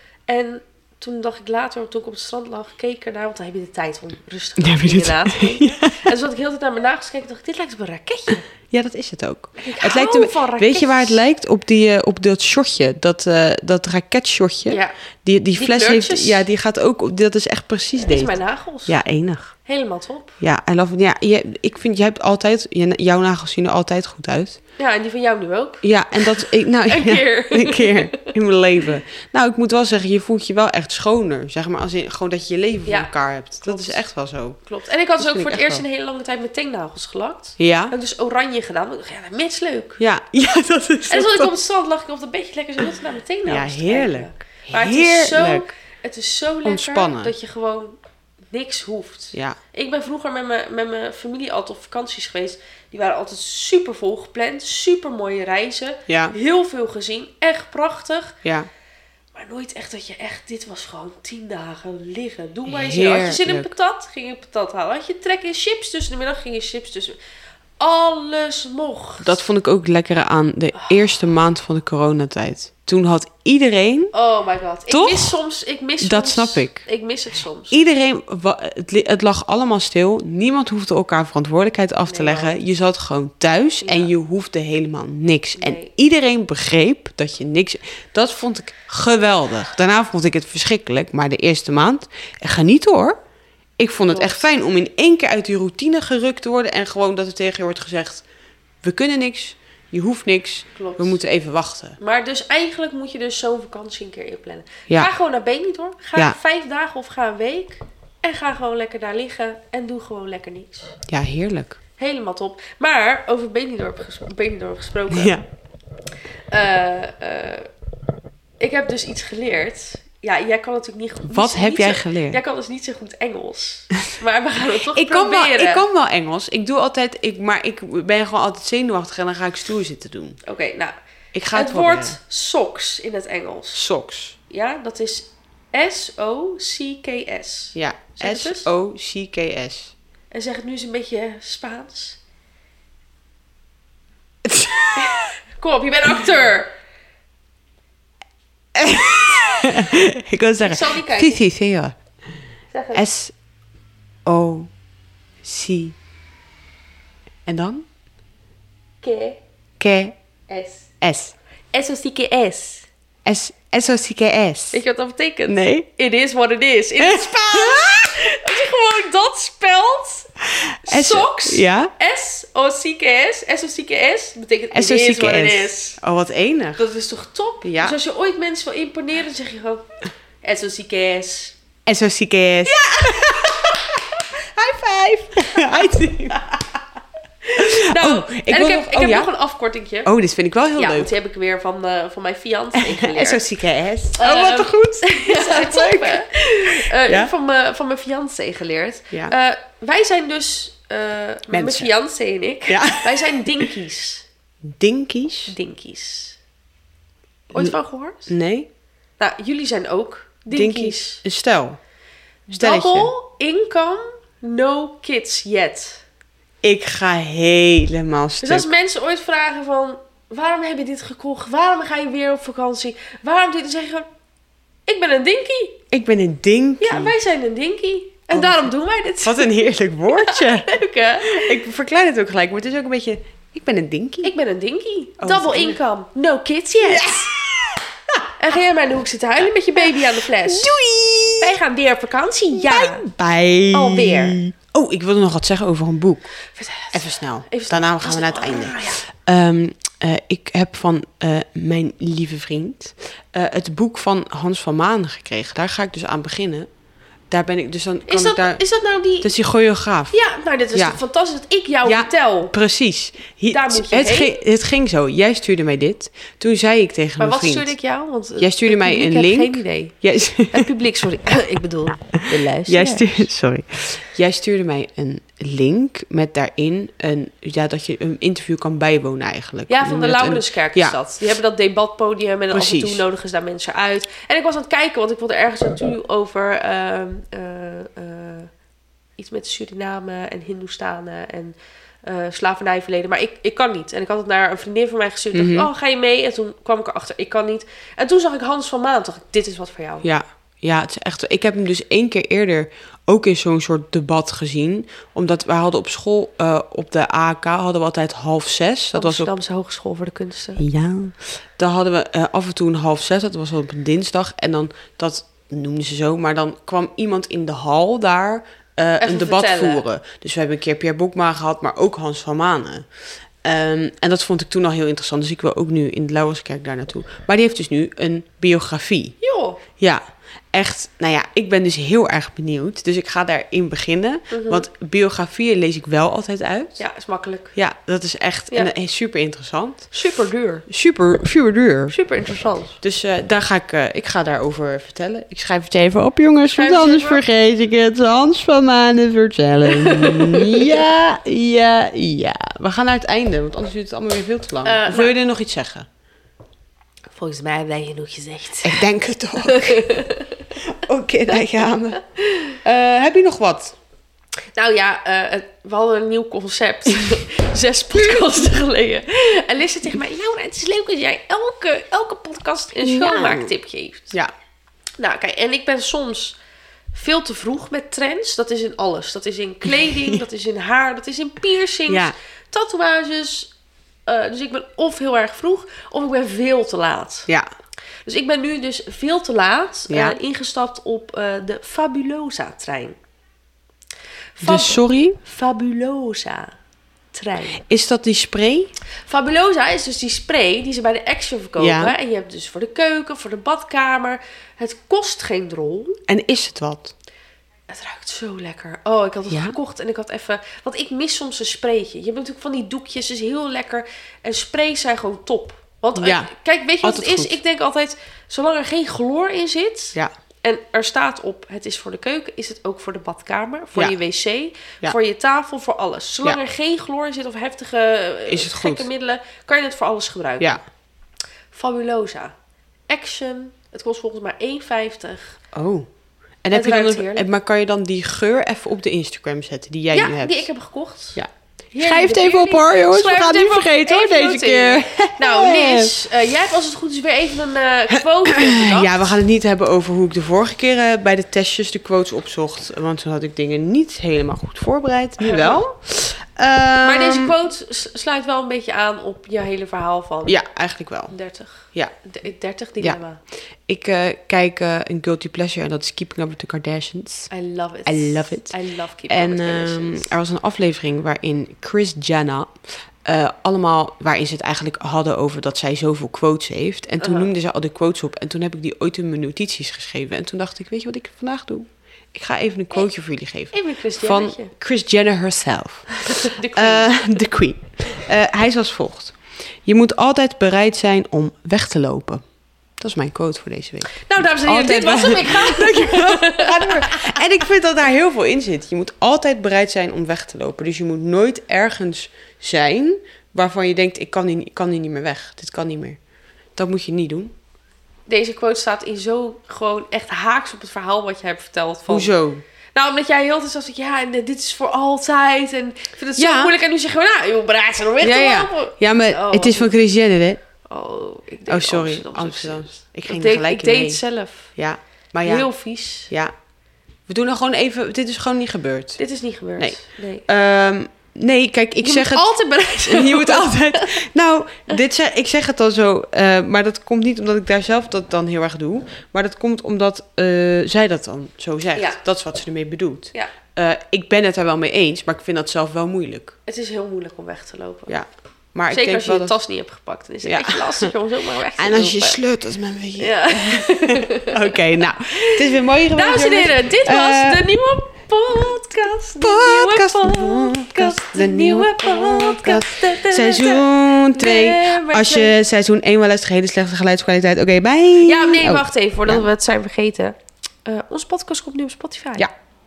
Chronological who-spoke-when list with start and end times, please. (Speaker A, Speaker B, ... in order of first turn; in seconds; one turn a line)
Speaker A: 0.3-8.4
Speaker B: 4.6-6.0
Speaker B: 8.7-19.5
Speaker A: 9.6-11.2
Speaker A: 14.7-14.9
Speaker A: 15.5-16.4
Speaker A: 18.0-19.0
Speaker A: 19.6-20.4
Speaker B: 20.4-24.6
Speaker A: 24.8-28.3
Speaker B: 25.8-34.6
Speaker A: 32.9-33.1
Speaker A: 33.6-34.0
Speaker A: 34.6-40.0
Speaker B: 35.2-35.8
Speaker B: 37.6-37.9
Speaker B: 40.0-41.5
Speaker A: 41.1-48.0
Speaker B: 43.4-45.7
Speaker B: 46.6-47.3
Speaker A: 48.5-58.4
Speaker B: 56.1-56.3
Speaker B: 58.4-58.7
Speaker A: 59.3-67.2
Speaker B: 62.6-63.7
Speaker A: 67.8-69.4
Speaker B: 69.2-74.1
Speaker A: 70.7-71.1
Speaker A: 74.1-77.8
Speaker B: 74.9-75.3
Speaker B: 76.0-76.8
Speaker B: 77.7-93.2
Speaker A: 82.0-82.5
Speaker A: 83.8-84.1
Speaker A: 85.6-85.9
Speaker B: 93.8-98.2
Speaker A: 94.1-94.5
Speaker B: 98.8-102.0
Speaker A: 100.7-101.2
Speaker A: 102.0-111.0
Speaker B: 111.1-111.8
Speaker A: 112.0-115.4
Speaker B: 115.1-115.4
Speaker A: 116.5-117.7
Speaker A: 118.6-125.8
Speaker B: 121.2-122.4
Speaker B: 124.8-130.4
Speaker A: 130.4-130.9
Speaker B: 131.3-132.2
Speaker A: 131.5-133.8
Speaker B: 133.7-134.3
Speaker A: 134.5-138.7
Speaker B: 137.7-139.9
Speaker A: 140.3-142.2
Speaker B: 144.4-145.2
Speaker A: 144.9-146.7
Speaker B: 148.7-151.9
Speaker A: 150.6-151.4
Speaker A: 152.7-153.0
Speaker B: 152.9-153.3
Speaker B: 154.2-154.7
Speaker B: 155.4-155.9
Speaker B: 157.4-157.8
Speaker A: 159.0-159.4
Speaker B: 159.8-160.2
Speaker A: 160.5-160.9
Speaker B: 161.0-161.3
Speaker A: 161.7-162.9
Speaker B: 163.2-164.8
Speaker A: 164.7-170.3
Speaker B: 165.5-165.9
Speaker B: 167.0-168.2
Speaker B: 170.6-171.9
Speaker A: 170.8-176.0
Speaker B: 174.7-176.8
Speaker A: 176.8-179.8
Speaker B: 177.6-178.0
Speaker A: 180.4-181.6
Speaker B: 181.8-184.0
Speaker A: 182.7-184.0
Speaker B: 184.6-186.8
Speaker A: 185.4-185.9
Speaker A: 187.5-190.1
Speaker B: 187.6-189.3
Speaker B: 190.0-191.1
Speaker A: 190.8-193.4
Speaker B: 192.8-197.3
Speaker A: 194.2-204.2
Speaker B: 201.5-201.9
Speaker B: 202.7-203.7
Speaker B: 204.6-205.5
Speaker A: 205.5-206.4
Speaker A: 207.5-208.3
Speaker B: 208.3-208.7
Speaker A: 209.2-211.2
Speaker B: 210.5-211.8
Speaker A: 212.5-216.0
Speaker B: 212.6-213.1
Speaker B: 216.6-218.7
Speaker A: 218.4-224.1
Speaker A: 224.9-225.8
Speaker B: 225.9-227.1
Speaker A: 226.8-231.6
Speaker B: 228.3-228.7
Speaker B: 229.2-234.3
Speaker A: 234.2-237.3
Speaker B: 235.2-235.8
Speaker B: 236.8-238.3
Speaker A: 238.4-240.8
Speaker B: 239.8-241.5
Speaker A: 241.4-243.0
Speaker B: 242.5-246.3
Speaker A: 243.7-244.4
Speaker A: 246.5-249.0
Speaker B: 246.9-256.7
Speaker B: 257.3-258.6
Speaker A: 258.1-259.3
Speaker B: 259.2-260.1
Speaker A: 260.1-262.5
Speaker B: 260.7-261.0
Speaker B: 261.8-267.7
Speaker A: 263.5-264.4
Speaker A: 267.2-269.9
Speaker B: 268.4-270.7
Speaker A: 270.5-273.3
Speaker B: 272.6-281.0
Speaker A: 279.7-288.5
Speaker B: 282.5-283.0
Speaker A: 289.2-300.1
Speaker B: 295.3-295.7
Speaker B: 300.0-309.3
Speaker A: 308.9-310.6
Speaker B: 310.6-322.9
Speaker A: 319.0-319.8
Speaker B: 323.4-329.1
Speaker A: 329.2-329.6
Speaker B: 330.5-336.8
Speaker A: 334.3-334.6
Speaker A: 336.8-337.5
Speaker B: 337.5-339.9
Speaker A: 339.9-340.6
Speaker B: 340.7-341.9
Speaker A: 341.9-342.8
Speaker B: 342.8-355.9
Speaker A: 346.5-347.2
Speaker A: 349.7-350.9
Speaker A: 354.6-355.1
Speaker A: 357.1-358.8
Speaker B: 358.6-360.0
Speaker A: 359.4-360.5
Speaker B: 360.6-362.0
Speaker A: 362.1-362.6
Speaker B: 362.6-363.8
Speaker A: 364.6-374.1
Speaker B: 372.8-373.5
Speaker A: 375.0-376.4
Speaker A: 376.9-383.5
Speaker B: 379.8-380.2
Speaker B: 381.9-382.1
Speaker A: 384.1-387.3
Speaker A: 388.1-392.9
Speaker B: 389.9-390.2
Speaker A: 394.3-396.5
Speaker B: 394.4-395.2
Speaker A: 397.1-397.6
Speaker B: 397.6-398.7
Speaker A: 399.1-406.0
Speaker B: 401.6-401.9
Speaker B: 406.1-406.9
Speaker A: 407.7-430.6
Speaker B: 409.3-409.6
Speaker B: 416.0-416.3
Speaker B: 416.8-417.4
Speaker B: 428.2-428.9
Speaker A: 431.5-432.3
Speaker A: 432.9-435.4
Speaker B: 435.5-435.9
Speaker B: 436.4-440.4
Speaker A: 436.5-437.3
Speaker A: 439.9-441.2
Speaker B: 441.1-445.9
Speaker A: 441.7-449.0
Speaker B: 448.2-457.3
Speaker A: 455.2-455.6
Speaker A: 456.8-460.4
Speaker B: 460.2-461.1
Speaker A: 461.1-463.2
Speaker B: 463.7-467.3
Speaker A: 467.3-470.1
Speaker B: 467.9-468.5
Speaker B: 469.1-492.2
Speaker A: 477.0-477.3
Speaker A: 483.5-484.5
Speaker A: 486.0-486.9
Speaker B: 492.8-506.0
Speaker A: 494.0-497.2
Speaker B: 506.6-507.3
Speaker A: 508.1-512.1
Speaker B: 511.9-512.4
Speaker A: 512.7-519.7
Speaker B: 516.2-516.5
Speaker B: 518.0-520.4
Speaker A: 520.7-524.5
Speaker B: 521.5-524.0
Speaker B: 524.5-525.5
Speaker A: 525.2-526.1
Speaker B: 527.1-529.0
Speaker A: 529.0-530.2
Speaker B: 529.6-532.3
Speaker A: 531.8-534.0
Speaker B: 532.8-546.3
Speaker A: 546.5-548.0
Speaker B: 547.9-549.4
Speaker A: 548.7-552.2
Speaker B: 550.2-550.9
Speaker B: 551.6-557.5
Speaker A: 553.0-565.3
Speaker B: 559.2-569.2
Speaker A: 568.0-572.3